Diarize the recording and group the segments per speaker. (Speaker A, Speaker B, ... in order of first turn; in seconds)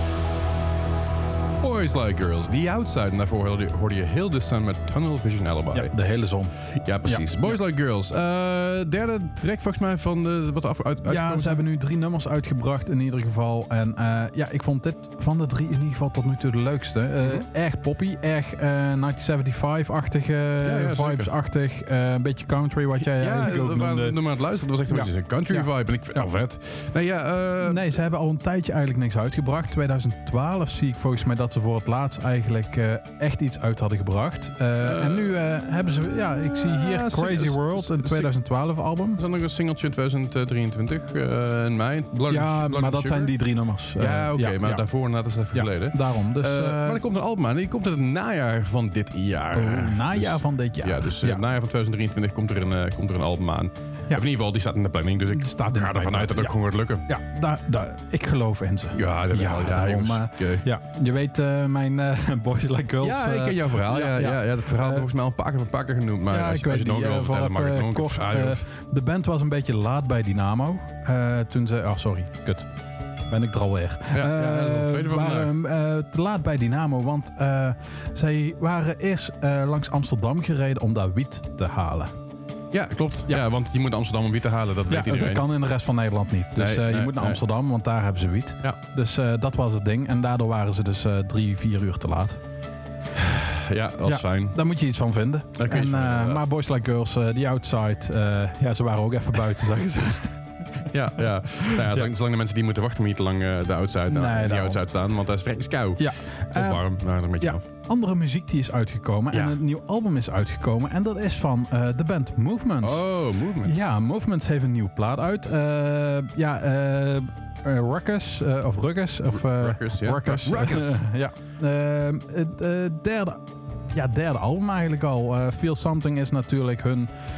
Speaker A: 1.6-5.9, 6.8-11.6, 20.6-21.3, 23.1-27.9, 34.8-35.4, 36.3-38.3, 39.2-43.3, 44.0-57.1, 58.9-60.7, 63.0-68.6, 74.1-75.5, 82.7-85.5, 86.6-87.4, 93.2-94.6, 95.6-96.4, 100.9-107.6, 112.8-113.9, 119.3-121.0
Speaker B: 5.7-7.6, 11.1-24.2, 24.9-26.3, 27.6-39.2, 42.3-44.9, 45.5-47.0, 49.5-51.4, 55.3-65.1, 66.3-72.7, 73.3-82.1, 84.9-92.4, 94.0-100.3, 101.6-102.1, 104.1-104.8, 106.0-106.8, 107.4-113.0, 113.6-127.1